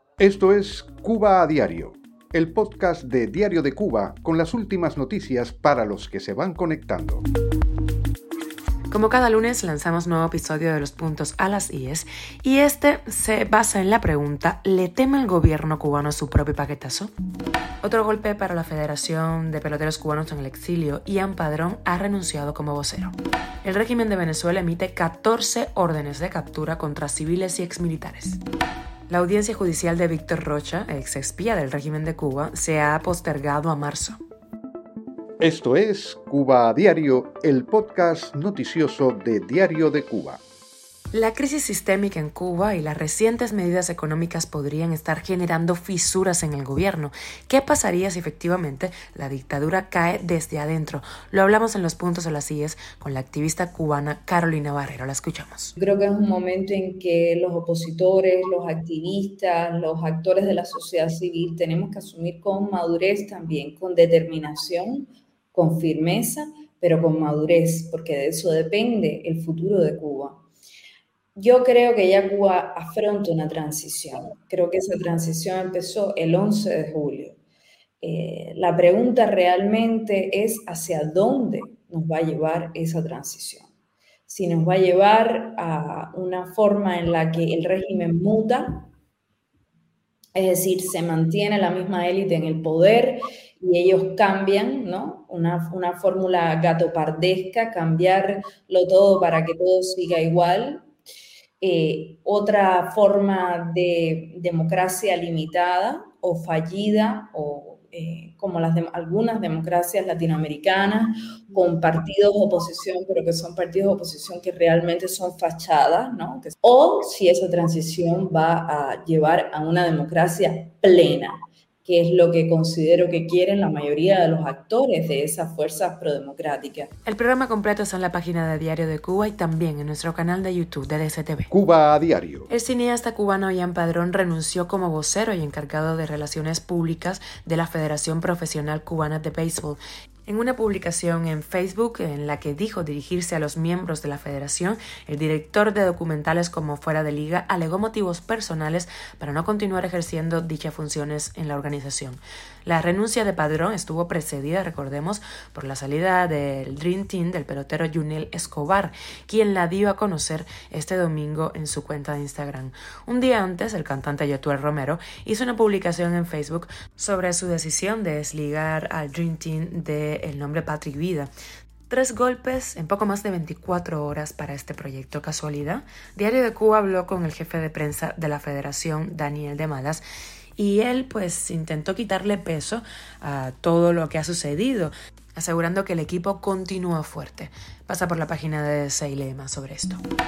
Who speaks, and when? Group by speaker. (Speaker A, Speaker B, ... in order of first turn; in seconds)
Speaker A: 0.2-7.2, 35.4-40.4, 131.5-132.5
Speaker B: 8.9-17.1, 17.8-28.4, 29.1-34.2, 41.1-55.7, 127.0-131.5, 132.5-171.3, 171.9-180.0, 180.6-190.0
Speaker C: 55.8-70.4, 71.3-77.4, 78.0-83.7, 84.3-88.9, 90.3-100.8, 101.6-126.9